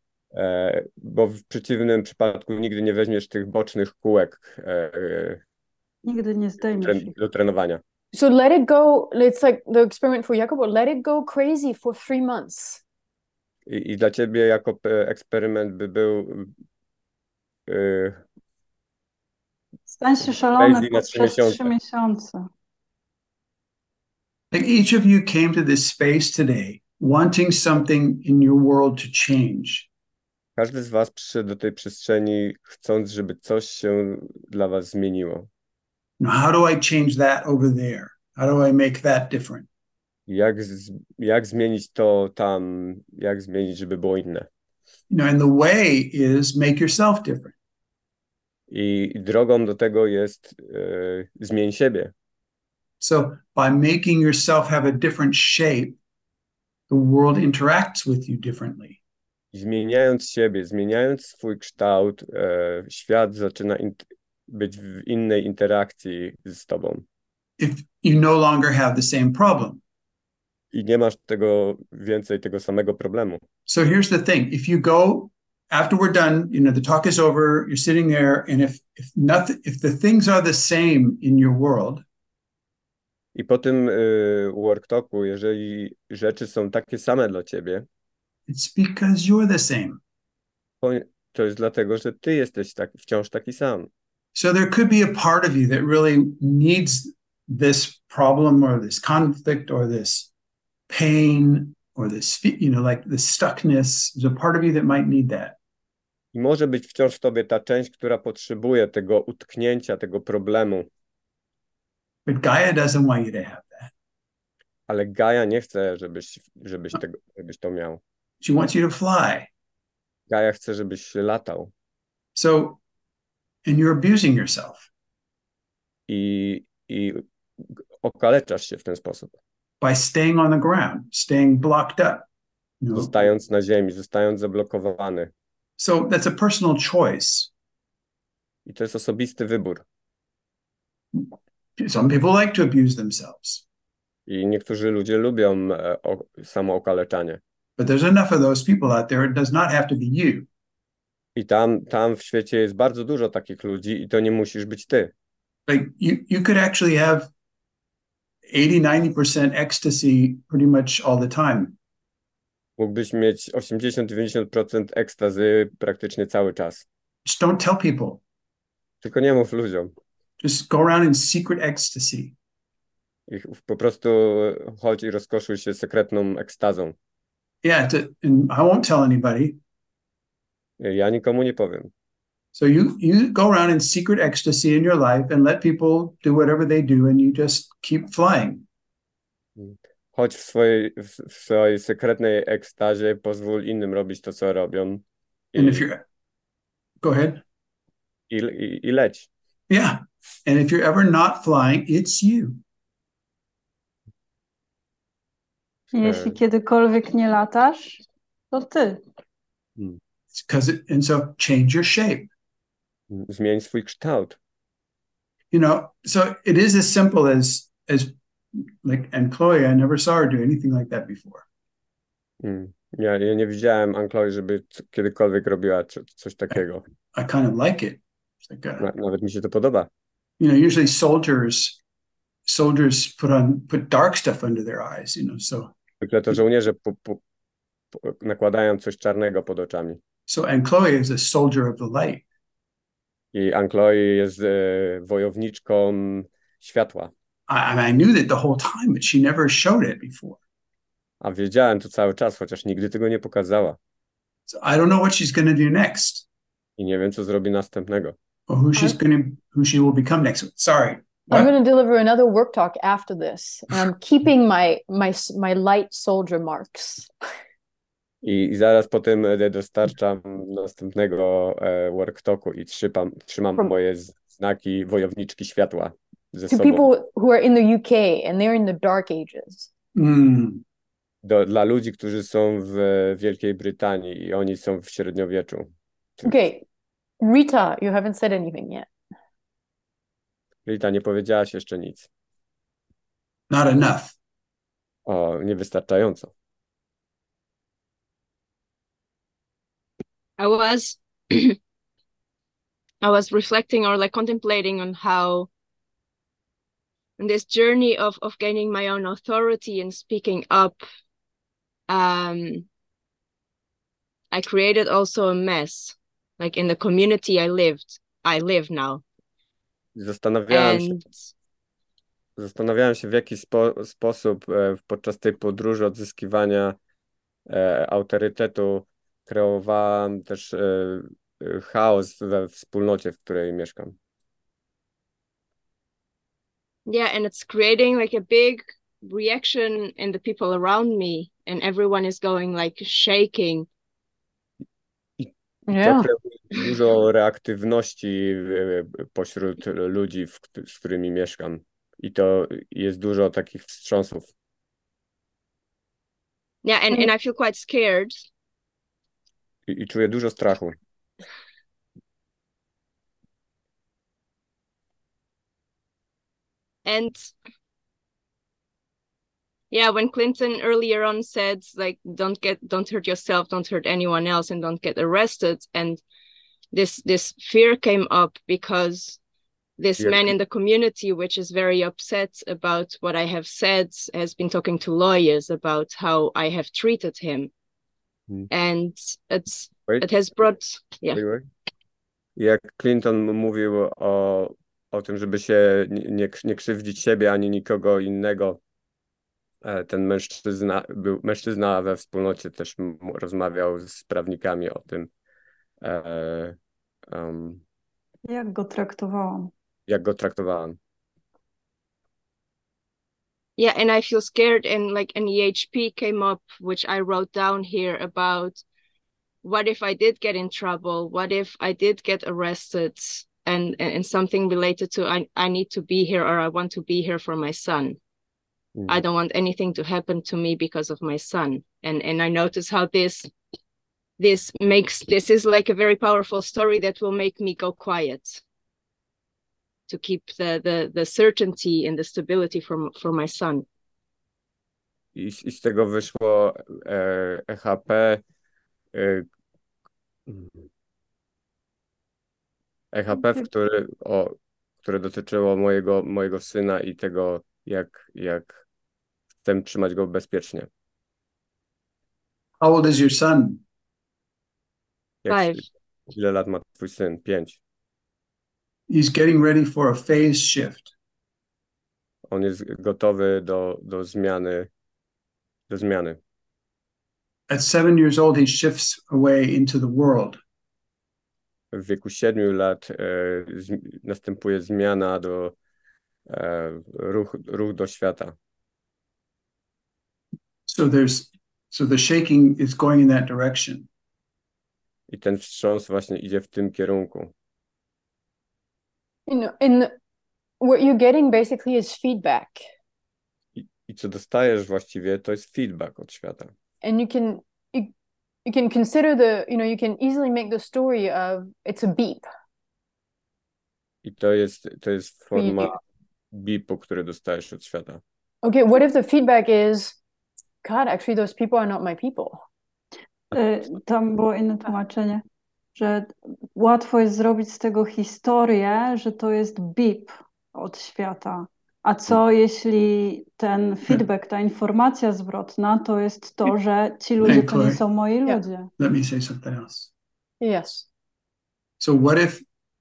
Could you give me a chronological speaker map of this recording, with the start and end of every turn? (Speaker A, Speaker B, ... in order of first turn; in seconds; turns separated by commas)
Speaker A: 0.3-5.4, Speaker B: 6.0-7.1, Speaker A: 6.8-7.8, Speaker C: 8.1-12.8, Speaker A: 13.7-16.5, Speaker A: 17.7-18.2, Speaker B: 19.9-22.5, Speaker A: 20.2-21.7, Speaker D: 24.5-29.9, Speaker A: 30.6-35.5, Speaker D: 36.2-39.7, Speaker A: 40.3-44.5, Speaker D: 45.1-47.5, Speaker A: 48.7-52.1, Speaker D: 53.0-56.0, Speaker D: 56.9-59.0, Speaker A: 59.5-67.0, Speaker D: 67.6-69.8, Speaker A: 70.7-73.4, Speaker D: 73.7-82.0, Speaker A: 83.3-87.8, Speaker D: 88.5-90.0, Speaker A: 90.8-93.9, Speaker D: 94.3-100.3, Speaker D: 100.9-105.6, Speaker A: 106.3-110.9, Speaker D: 112.3-113.9, Speaker A: 114.9-118.0, Speaker D: 118.4-119.5, Speaker A: 120.3-121.7, Speaker D: 122.3-122.8, Speaker D: 123.7-124.9, Speaker A: 126.1-127.2, Speaker A: 128.0-129.4, Speaker D: 129.8-132.3, Speaker D: 132.8-133.1, Speaker A: 132.9-135.3, Speaker D: 135.8-137.5, Speaker A: 138.7-139.8, Speaker D: 141.1-143.6, Speaker A: 144.3-147.4, Speaker D: 147.8-150.5, Speaker A: 151.4-155.1, Speaker D: 155.7-157.3, Speaker D: 158.5-161.8, Speaker A: 162.8-166.9, Speaker D: 167.2-168.2, Speaker A: 169.0-169.9, Speaker D: 170.4-172.4, Speaker A: 173.3-176.9, Speaker D: 177.6-179.6, Speaker A: 180.8-181.9, Speaker D: 182.5-188.7, Speaker A: 189.6-195.9, Speaker D: 195.6-196.1, Speaker D: 197.0-197.4, Speaker A: 198.3-199.3, Speaker D: 199.7-202.6, Speaker B: 205.9-209.0, Speaker A: 206.0-206.4, Speaker D: 210.3-212.3, Speaker A: 213.1-214.4, Speaker D: 215.5-221.5, Speaker A: 222.4-226.8, Speaker D: 227.1-228.9, Speaker A: 228.8-229.9, Speaker D: 230.4-231.8, Speaker D: 232.5-235.7, Speaker A: 236.0-237.2, Speaker A: 238.0-240.0, Speaker D: 240.3-242.2, Speaker A: 243.3-247.1, Speaker D: 247.5-250.4, Speaker A: 251.2-253.8, Speaker D: 254.5-256.3, Speaker A: 256.8-258.1, Speaker D: 258.5-261.5, Speaker C: 261.3-267.1, Speaker A: 268.2-276.8, Speaker C: 276.5-279.7, Speaker D: 279.9-280.6, Speaker A: 281.2-285.7, Speaker C: 286.2-286.6, Speaker C: 287.2-288.9, Speaker A: 290.7-292.1, Speaker D: 293.5-294.1, Speaker A: 295.1-296.3, Speaker E: 300.4-301.6, Speaker E: 303.0-305.5, Speaker E: 307.2-310.8, Speaker E: 311.9-312.7, Speaker E: 314.3-319.0, Speaker A: 320.0-321.1, Speaker E: 320.5-321.0, Speaker A: 322.4-326.8, Speaker A: 327.5-334.0, Speaker E: 336.9-343.7, Speaker A: 345.2-354.3, Speaker C: 345.7-346.1, Speaker E: 356.6-358.2, Speaker A: 359.7-360.8, Speaker E: 366.9-367.3, Speaker E: 369.7-376.0, Speaker E: 376.7-379.2, Speaker E: 379.8-387.5, Speaker A: 380.0-380.3, Speaker E: 388.5-391.2, Speaker A: 391.1-391.5, Speaker A: 392.4-398.6, Speaker A: 399.6-405.1, Speaker A: 405.8-406.6, Speaker A: 407.1-407.6, Speaker B: 408.3-409.5, Speaker A: 409.9-410.8, Speaker E: 413.6-418.6, Speaker E: 419.4-428.0, Speaker A: 428.8-429.0, Speaker E: 428.9-433.3, Speaker E: 434.2-438.4, Speaker E: 439.9-443.7, Speaker A: 445.1-448.2, Speaker A: 448.9-449.3, Speaker A: 450.3-450.7, Speaker A: 452.9-458.6, Speaker A: 459.4-460.7, Speaker D: 462.6-463.6, Speaker A: 465.2-467.6, Speaker E: 465.3-465.6, Speaker D: 468.9-470.9, Speaker A: 472.3-474.7, Speaker A: 475.7-476.2, Speaker D: 477.5-480.4, Speaker A: 481.7-485.6, Speaker A: 486.3-488.4, Speaker D: 490.7-493.9, Speaker A: 495.1-497.3, Speaker C: 499.3-499.9, Speaker C: 500.6-502.7, Speaker A: 503.6-506.5, Speaker C: 506.8-507.9, Speaker C: 508.5-512.2, Speaker A: 514.0-515.8, Speaker C: 515.4-515.7, Speaker A: 516.3-518.0, Speaker C: 518.4-520.0, Speaker C: 520.6-522.4, Speaker B: 523.3-525.2, Speaker B: 525.8-538.7, Speaker D: 537.2-537.8, Speaker D: 538.8-539.9, Speaker C: 540.4-540.9, Speaker D: 541.8-542.4